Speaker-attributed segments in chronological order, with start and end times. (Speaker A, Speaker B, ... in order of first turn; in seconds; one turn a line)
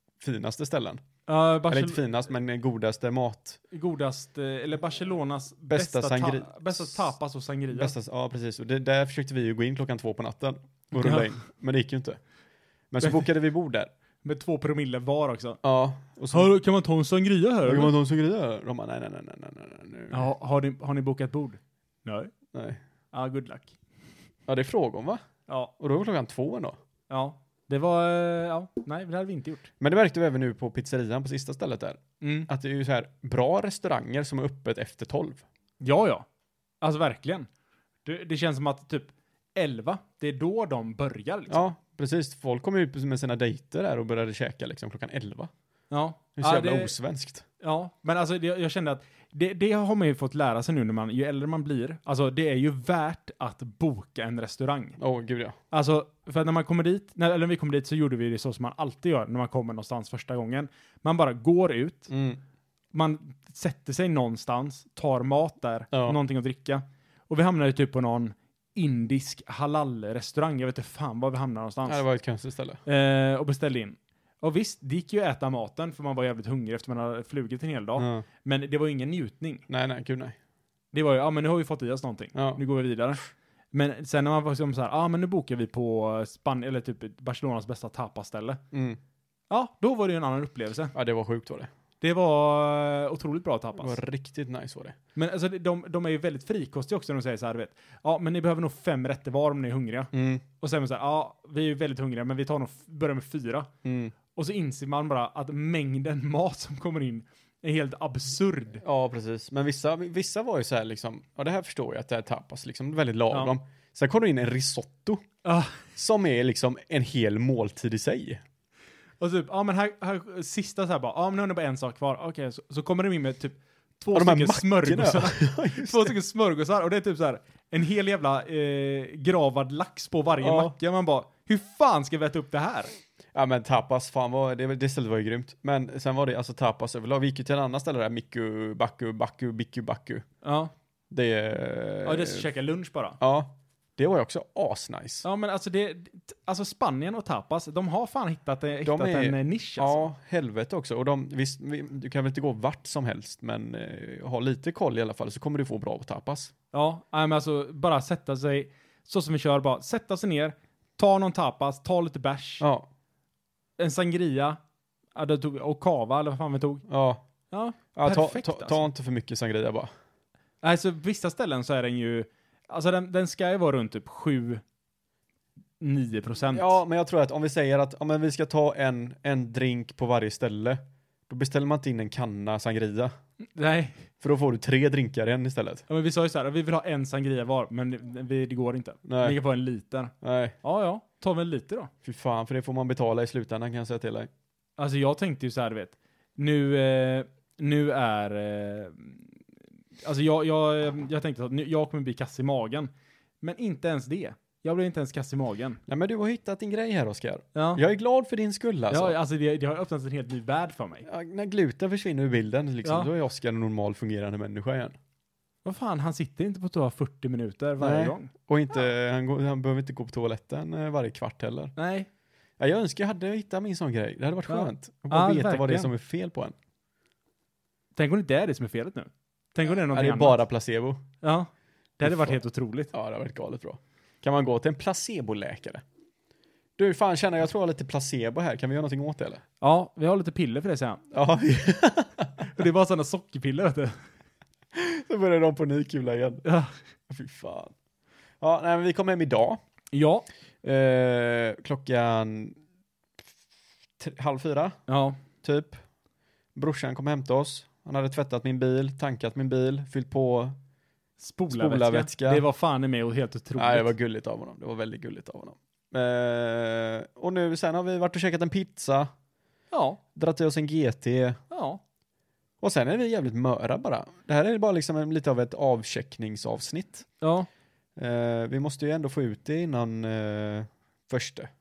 Speaker A: 0.2-1.0
Speaker B: 1.3-2.0
Speaker A: 1.7-3.6
Speaker B: 3.7-7.9
Speaker A: 5.7-7.1
Speaker A: 7.7-12.2
Speaker B: 11.0-11.3
Speaker A: 12.9-13.9
Speaker B: 13.0-13.3
Speaker B: 14.2-15.6
Speaker A: 15.6-16.5
Speaker B: 16.3-17.9
Speaker A: 17.6-20.3
Speaker B: 20.1-22.3
Speaker A: 22.5-22.8
Speaker B: 23.1-23.8
Speaker A: 24.5-25.2
Speaker A: 25.8-26.8
Speaker B: 27.1-29.7
Speaker A: 29.8-35.5
Speaker B: 32.2-32.5
Speaker B: 35.8-36.3
Speaker B: 36.8-37.5
Speaker B: 38.0-41.6
Speaker A: 41.5-45.5
Speaker B: 45.9-46.9
Speaker A: 46.4-47.5
Speaker B: 47.6-55.0
Speaker A: 55.0-55.6
Speaker B: 55.7-62.1
Speaker A: 62.1-62.4
Speaker B: 62.9-72.0
Speaker A: 65.9-66.2
Speaker A: 71.9-72.8
Speaker B: 72.9-79.7
Speaker A: 78.0-78.3
Speaker A: 79.7-80.4
Speaker B: 80.9-88.6
Speaker A: 82.3-82.6
Speaker A: 88.7-89.0
Speaker B: 89.5-90.9
Speaker A: 90.9-91.7
Speaker B: 92.0-94.0
Speaker A: 93.8-95.0
Speaker B: 95.2-103.7
Speaker A: 100.1-100.4
Speaker A: 103.8-104.1
Speaker B: 104.3-108.8
Speaker A: 108.8-115.2
Speaker B: 115.4-115.8
Speaker A: 116.0-118.4
Speaker B: 119.2-132.9
Speaker A: 124.1-126.1
Speaker A: 130.4-130.7
Speaker A: 133.3-140.2
Speaker B: 140.4-140.7
Speaker A: 141.1-142.5
Speaker B: 142.1-143.2
Speaker A: 143.2-145.2
Speaker B: 145.2-150.1
Speaker A: 148.8-156.5
Speaker B: 156.7-162.7
Speaker A: 162.6-162.9
Speaker B: 163.8-164.6
Speaker B: 165.2-166.9
Speaker A: 166.9-167.2
Speaker B: 167.5-168.8
Speaker A: 167.9-169.9
Speaker B: 170.6-174.6
Speaker B: 175.8-176.8
Speaker A: 176.5-183.1
Speaker B: 183.6-184.1
Speaker A: 184.2-185.8
Speaker B: 185.9-191.9
Speaker A: 189.1-189.4
Speaker A: 190.2-190.6
Speaker A: 192.0-194.3
Speaker B: 194.8-199.4
Speaker B: 200.0-205.8
Speaker A: 205.9-209.2
Speaker B: 207.6-207.8
Speaker B: 208.9-211.1
Speaker A: 211.1-215.0
Speaker B: 215.7-218.3
Speaker A: 217.8-221.7
Speaker B: 221.8-222.1
Speaker A: 222.6-226.6
Speaker B: 224.5-225.9
Speaker B: 227.9-230.4
Speaker A: 229.7-231.1
Speaker B: 231.2-232.9
Speaker A: 232.0-232.4
Speaker A: 232.9-235.8
Speaker A: 236.8-239.4
Speaker B: 239.6-241.0
Speaker A: 241.1-242.5
Speaker B: 242.4-244.0
Speaker A: 244.7-246.4
Speaker B: 246.4-246.7
Speaker A: 247.1-247.7
Speaker A: 248.4-249.6
Speaker B: 249.9-250.3
Speaker A: 250.6-252.6
Speaker A: 254.0-254.8
Speaker B: 254.9-255.2
Speaker A: 255.4-255.8
Speaker A: 256.6-260.6
Speaker B: 261.2-263.9
Speaker A: 261.5-262.4
Speaker A: 263.6-269.1
Speaker B: 269.7-270.0
Speaker A: 270.1-271.4
Speaker B: 271.5-271.8
Speaker A: 272.6-277.1
Speaker B: 277.2-277.5
Speaker A: 278.0-281.5